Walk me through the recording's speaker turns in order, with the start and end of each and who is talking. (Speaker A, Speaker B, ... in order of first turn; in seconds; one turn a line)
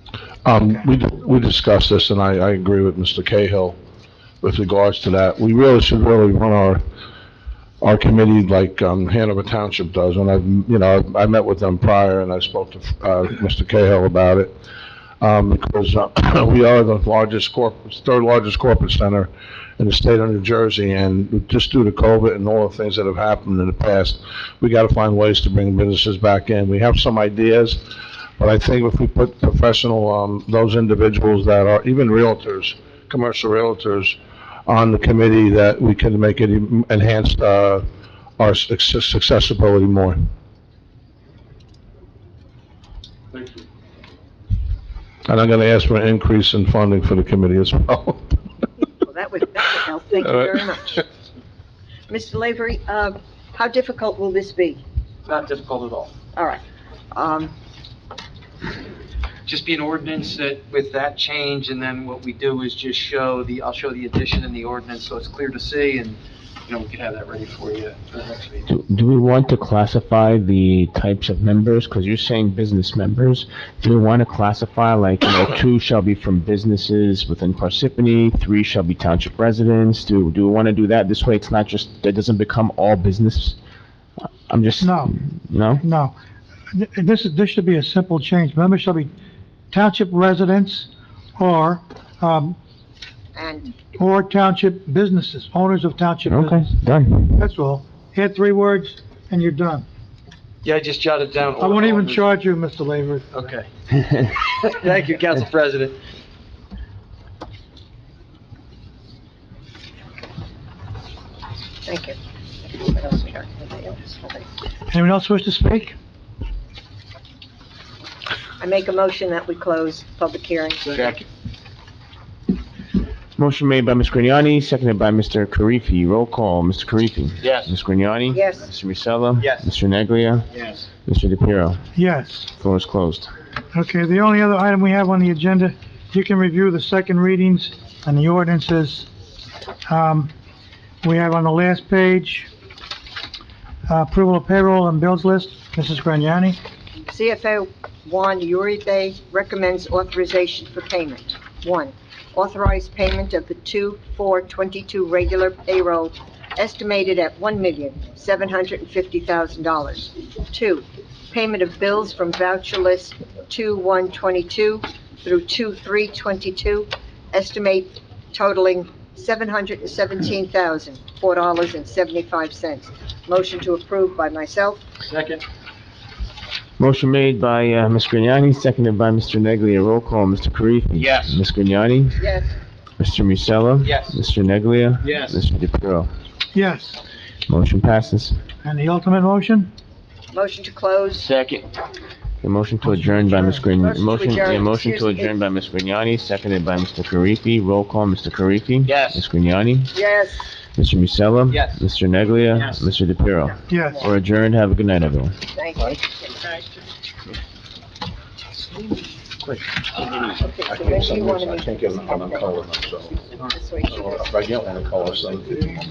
Speaker A: 0.5-3.8
Speaker A: 4.4-6.8
Speaker A: 7.8-14.5
Speaker A: 15.2-27.8
Speaker A: 28.4-37.9
Speaker A: 38.4-40.2
Speaker A: 45.3-48.4
Speaker B: 49.0-51.0
Speaker B: 52.1-54.8
Speaker C: 55.3-56.1
Speaker B: 56.3-56.6
Speaker B: 57.1-57.5
Speaker C: 59.5-68.7
Speaker D: 68.7-83.6
Speaker D: 84.5-85.8
Speaker E: 84.8-85.1
Speaker E: 85.8-86.2
Speaker E: 86.7-89.1
Speaker E: 89.7-92.6
Speaker B: 93.3-93.8
Speaker E: 93.8-99.9
Speaker D: 96.2-97.4
Speaker C: 100.6-102.3
Speaker E: 101.6-103.3
Speaker C: 103.3-106.0
Speaker B: 111.8-114.5
Speaker E: 114.9-115.9
Speaker B: 118.6-121.1
Speaker C: 120.8-121.2
Speaker D: 123.4-130.5
Speaker C: 127.4-127.7
Speaker B: 128.3-128.7
Speaker C: 129.4-129.7
Speaker C: 130.5-130.9
Speaker D: 131.1-131.9
Speaker E: 131.9-132.5
Speaker D: 132.6-133.3
Speaker E: 133.7-139.1
Speaker E: 139.9-140.3
Speaker E: 141.0-142.5
Speaker E: 143.9-146.6
Speaker B: 147.1-174.8
Speaker C: 175.1-175.4
Speaker D: 176.8-182.3
Speaker B: 182.2-182.5
Speaker D: 183.0-186.1
Speaker C: 183.8-184.2
Speaker C: 185.0-185.3
Speaker E: 186.5-187.0
Speaker D: 187.5-188.4
Speaker E: 188.6-189.7
Speaker B: 190.3-191.3
Speaker D: 192.4-199.9
Speaker E: 193.1-193.4
Speaker B: 193.5-195.4
Speaker C: 198.9-199.2
Speaker B: 199.9-200.4
Speaker D: 200.8-205.3
Speaker C: 202.5-202.8
Speaker E: 203.7-204.1
Speaker B: 205.5-206.3
Speaker B: 210.2-212.6
Speaker A: 210.7-213.2
Speaker B: 213.4-214.5
Speaker A: 214.3-215.8